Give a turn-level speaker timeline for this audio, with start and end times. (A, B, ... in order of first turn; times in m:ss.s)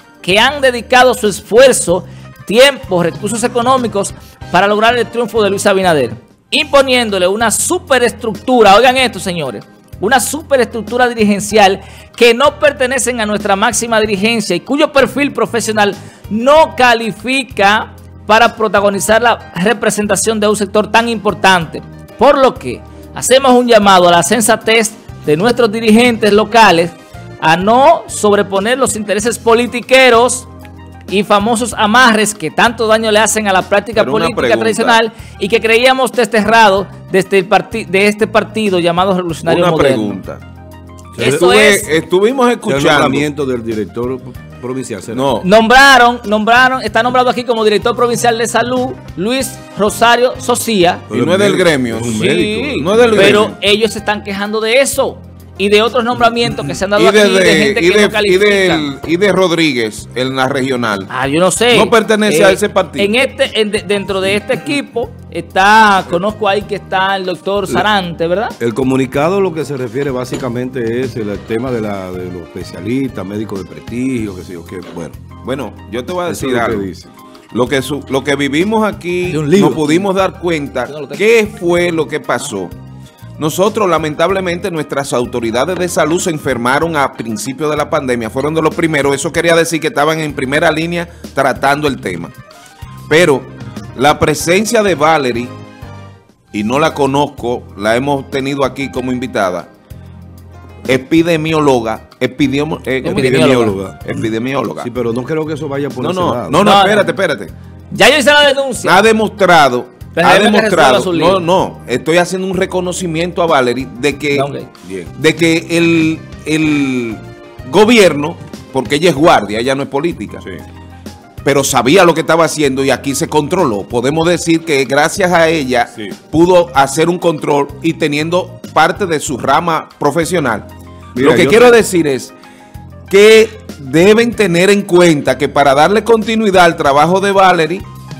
0:00.2-0:30.5 A
0:31.1-0:40.2 A
0:34.0-0:35.0 B
0:39.4-0:40.4 B
0:41.2-0:41.5 C
0:41.2-0:41.9 A
0:41.2-0:43.3 B
0:42.6-0:45.3 C
0:45.1-0:45.5 B
0:45.4-0:51.1 A
0:51.1-0:53.5 C
0:51.1-0:53.6 B
0:52.1-0:58.9 A
0:57.0-1:01.1 B
1:01.1-1:08.6 A
1:01.7-1:03.1 B
1:08.6-1:15.2 C
1:15.4-1:16.9 B
1:16.3-1:17.1 C
1:17.5-1:22.7 B
1:19.3-1:20.1 A
1:20.9-1:21.2 A
1:23.4-1:32.3 B
1:33.1-1:35.5 B
1:36.5-1:39.7 B
1:40.9-1:44.9 B
1:43.0-1:46.6 C
1:43.0-1:43.8 A
1:46.0-1:47.5 B
1:46.6-1:47.1 A
1:47.9-1:49.0 A
1:48.8-2:00.4 B
1:50.1-1:51.4 A
1:54.3-1:54.7 A
2:01.4-2:12.3 B
2:11.2-2:11.8 C
2:13.1-2:17.8 B